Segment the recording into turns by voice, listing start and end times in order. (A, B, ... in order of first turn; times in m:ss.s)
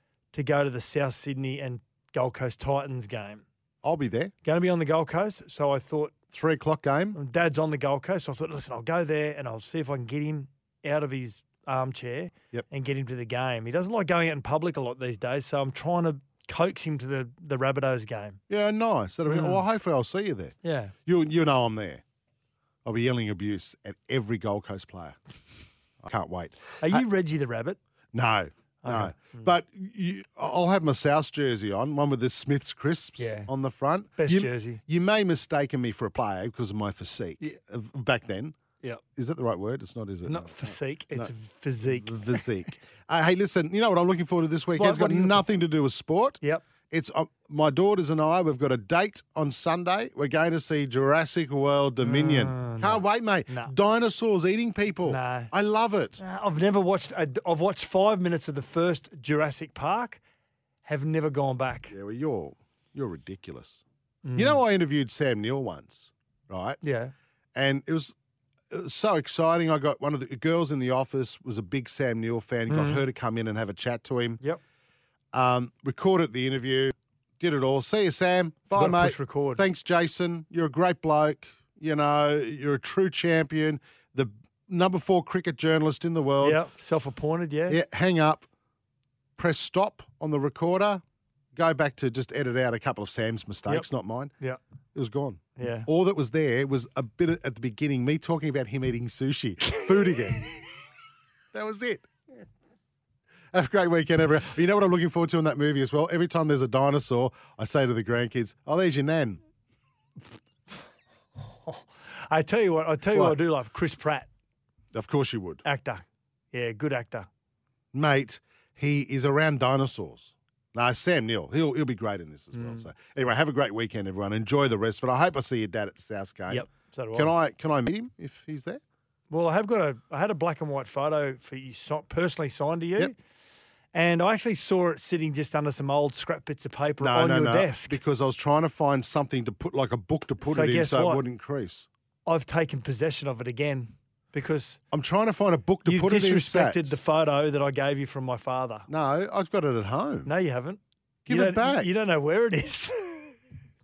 0:00.3-0:03.4 A
0:03.8-0:04.3 B
0:04.4-0:06.2 A
0:06.3-0:07.2 B
0:07.1-0:18.4 A
0:18.5-0:22.0 B
0:19.3-0:19.6 A
0:20.6-0:20.9 A
0:22.8-0:25.2 B
0:26.0-0:27.0 B
0:26.8-0:27.8 A
0:28.1-0:38.6 B
0:28.8-0:29.5 A
0:33.2-0:33.5 A
0:34.2-0:34.8 A
0:39.2-0:56.2 B
0:40.2-0:42.4 A
0:44.8-0:45.4 A
0:52.0-0:53.7 A
0:55.1-0:55.5 A
0:56.2-1:00.2 A
1:00.8-1:01.9 A
1:01.9-1:03.8 B
1:04.2-1:04.6 A
1:04.4-1:06.8 B
1:06.8-1:07.1 A
1:07.6-1:08.2 B
1:08.7-1:14.4 B
1:12.7-1:13.0 A
1:15.3-1:26.6 B
1:18.7-1:19.6 A
1:26.4-1:27.8 A
1:27.7-1:28.5 B
1:29.4-1:31.0 B
1:31.6-1:34.3 B
1:34.9-1:40.5 B
1:35.6-1:35.9 A
1:41.5-1:42.1 B
1:43.5-1:49.4 B
1:51.6-1:54.3 A
1:54.9-1:55.6 B
1:55.6-1:57.3 A
1:57.9-2:08.8 B
2:02.5-2:02.9 A
2:06.5-2:07.3 A
2:09.3-2:13.1 A
2:13.9-2:18.0 A
2:17.0-2:21.9 B
2:20.4-2:21.2 A
2:22.3-2:24.8 A
2:24.9-2:27.0 B
2:25.9-2:28.9 A
2:28.9-2:30.3 B
2:30.3-2:33.4 A
2:31.3-2:31.9 B